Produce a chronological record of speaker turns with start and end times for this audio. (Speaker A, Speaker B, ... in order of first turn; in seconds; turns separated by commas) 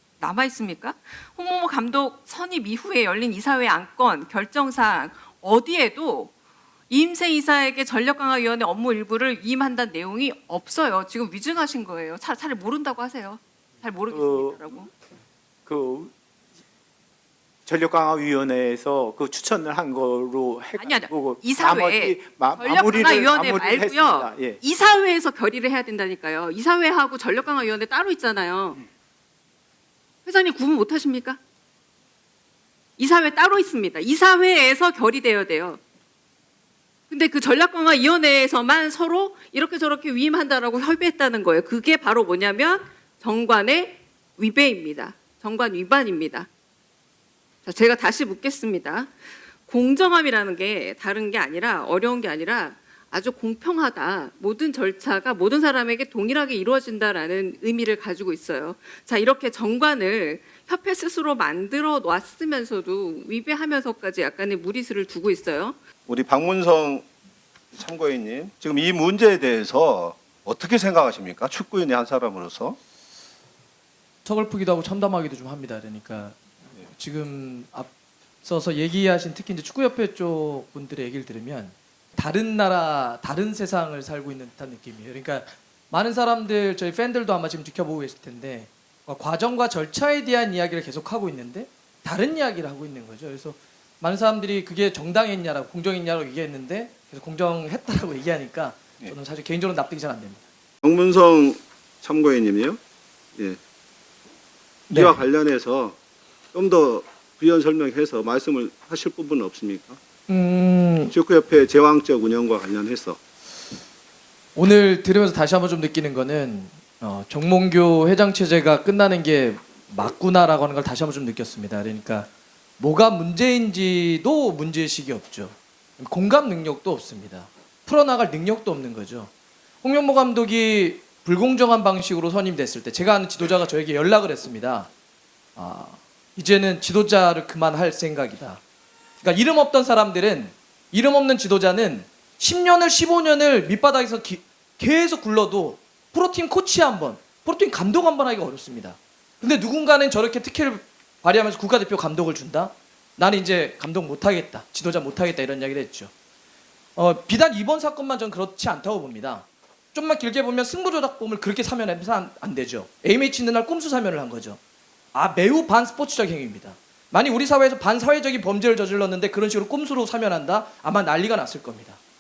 Speaker A: 0.2-6.3, Speaker A: 6.9-14.9, Speaker B: 14.1-14.6, Speaker B: 15.7-16.1, Speaker B: 17.6-24.6, Speaker A: 20.8-28.8, Speaker A: 30.2-31.4, Speaker A: 33.0-35.8, Speaker A: 37.1-46.5, Speaker A: 47.6-49.1, Speaker A: 49.6-65.8, Speaker C: 66.1-67.1, Speaker C: 67.7-72.8, Speaker D: 74.2-77.9, Speaker D: 78.4-100.4, Speaker C: 100.8-102.8, Speaker D: 104.9-105.2, Speaker C: 104.9-106.0, Speaker C: 106.5-110.0, Speaker D: 110.3-111.1, Speaker C: 111.1-113.2, Speaker D: 114.5-122.3, Speaker D: 122.8-129.3, Speaker D: 129.8-134.9, Speaker D: 135.6-138.6, Speaker D: 139.2-156.1, Speaker D: 156.9-164.6, Speaker D: 165.1-172.0